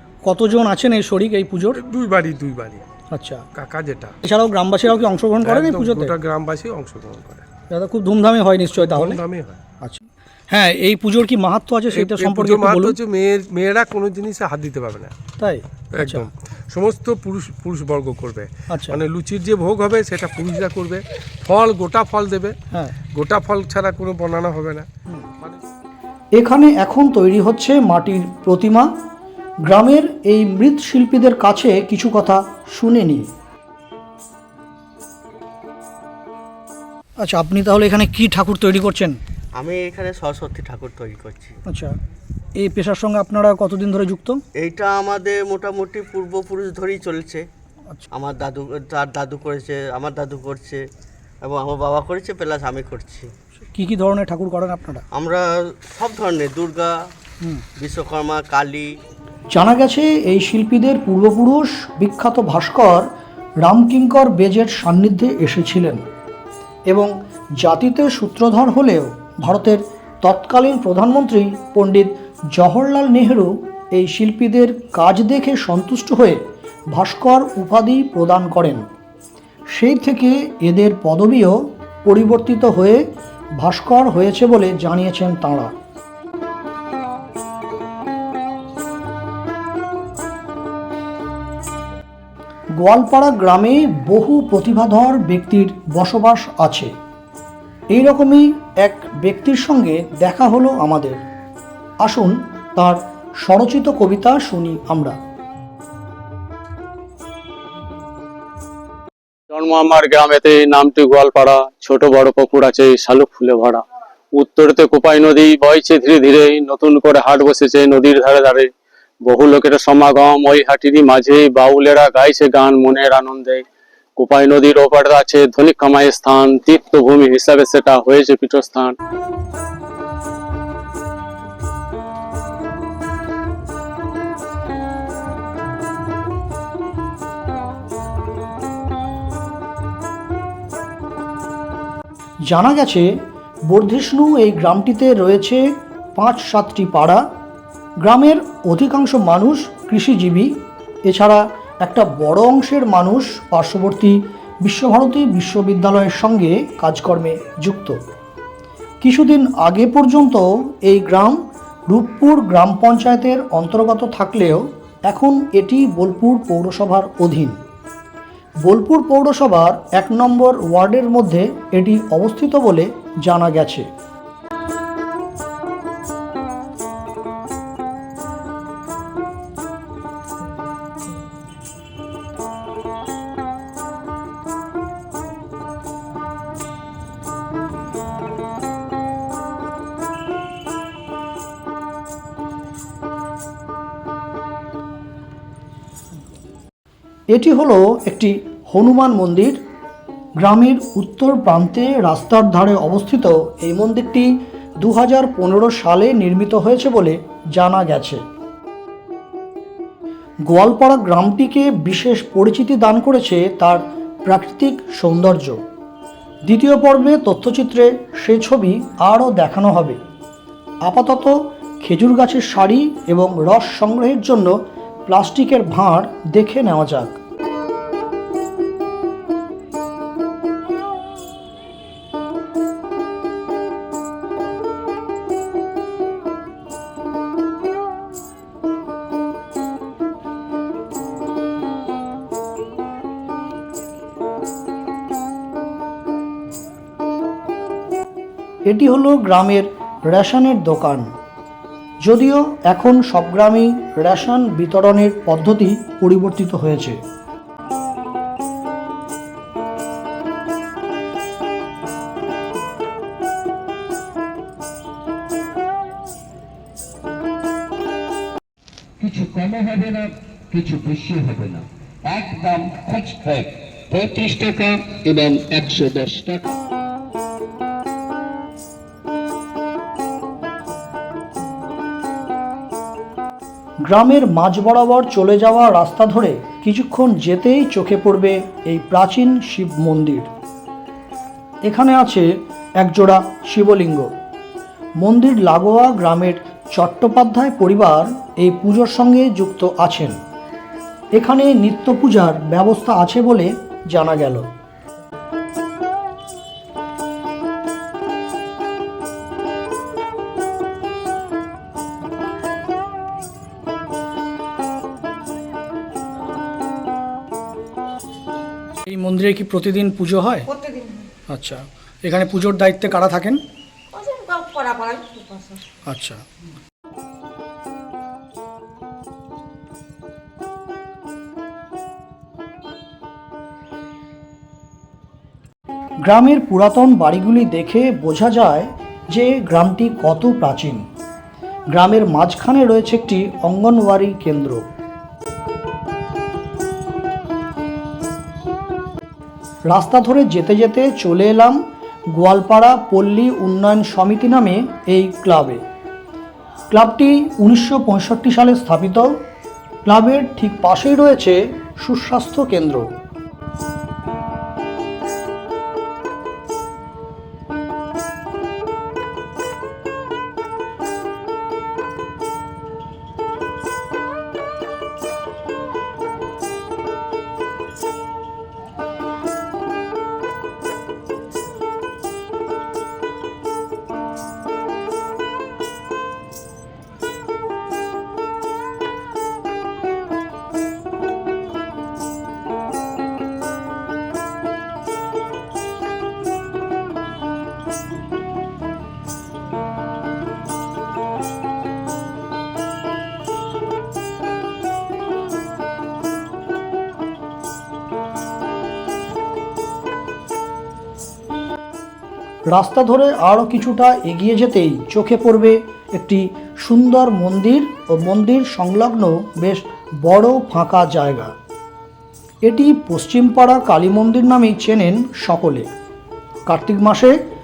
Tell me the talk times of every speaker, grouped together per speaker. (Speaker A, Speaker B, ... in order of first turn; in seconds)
Speaker A: 0.2-1.8, 3.1-3.5, 4.2-6.2, 7.7-9.2, 9.8-13.0, 15.4-16.3, 18.7-19.0, 22.7-23.0, 26.4-28.9, 29.6-33.3, 37.2-39.2, 41.7-41.9, 42.6-44.4, 53.7-55.0, 59.5-63.0, 63.6-66.0, 66.9-76.4, 76.9-78.8, 79.7-83.0, 83.6-85.7, 92.8-96.9, 97.9-101.2, 102.0-105.2, 142.5-143.1, 143.7-147.2, 148.0-150.5, 151.1-158.0, 159.0-161.4, 161.9-167.6, 168.6-173.8, 197.3-199.6, 200.4-208.2, 210.5-215.6, 216.5-220.0, 220.8-224.5, 225.1-227.2, 248.7-251.1, 252.0-257.0, 283.8-290.3, 291.6-292.3, 292.8-294.1, 295.0-300.2, 301.2-304.5, 318.9-320.5, 321.3-323.4, 325.9-326.2, 336.0-340.8, 341.7-344.6, 349.7-351.6, 352.1-355.6, 356.7-359.2, 359.9-362.9, 412.5-421.3, 422.4-425.7, 426.5-427.2
Speaker B: 1.7-2.8, 3.5-4.2, 5.4-7.5, 8.8-9.6, 11.9-15.1, 15.9-22.6, 23.1-24.9
Speaker C: 39.5-41.5, 44.6-47.4, 48.1-50.9, 51.4-53.3, 55.1-57.0, 57.8-58.9
Speaker D: 109.5-113.8, 114.4-118.7, 119.2-123.6, 124.2-128.9
Speaker E: 269.0-276.4
Speaker F: 320.6-321.0, 323.9-325.6